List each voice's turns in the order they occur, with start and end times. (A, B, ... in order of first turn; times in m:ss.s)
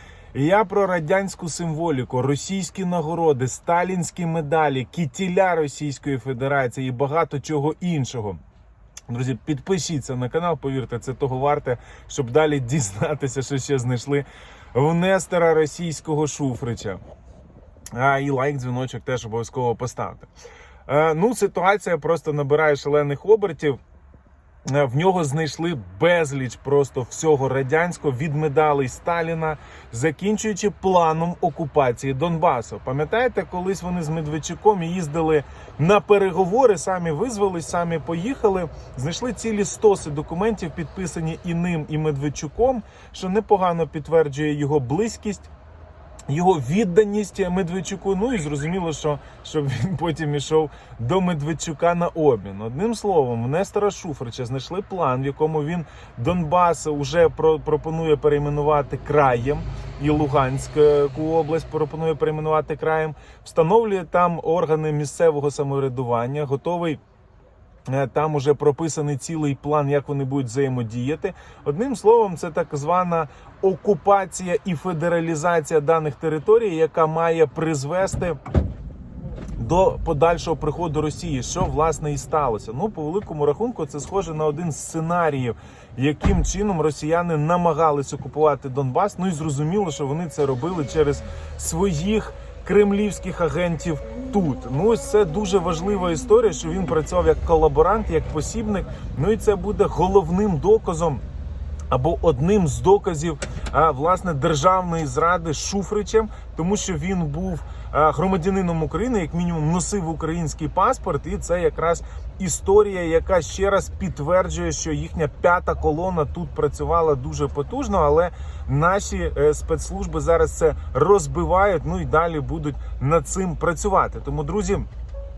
0:00.3-0:08.4 A
0:09.1-0:17.0 A
0:17.9-0:20.3 A
0:20.9-0:23.8 A
0:24.7-0:45.5 A
0:46.3-1:07.0 A
1:07.9-1:18.4 A
1:19.6-1:41.2 A
1:41.9-2:04.9 A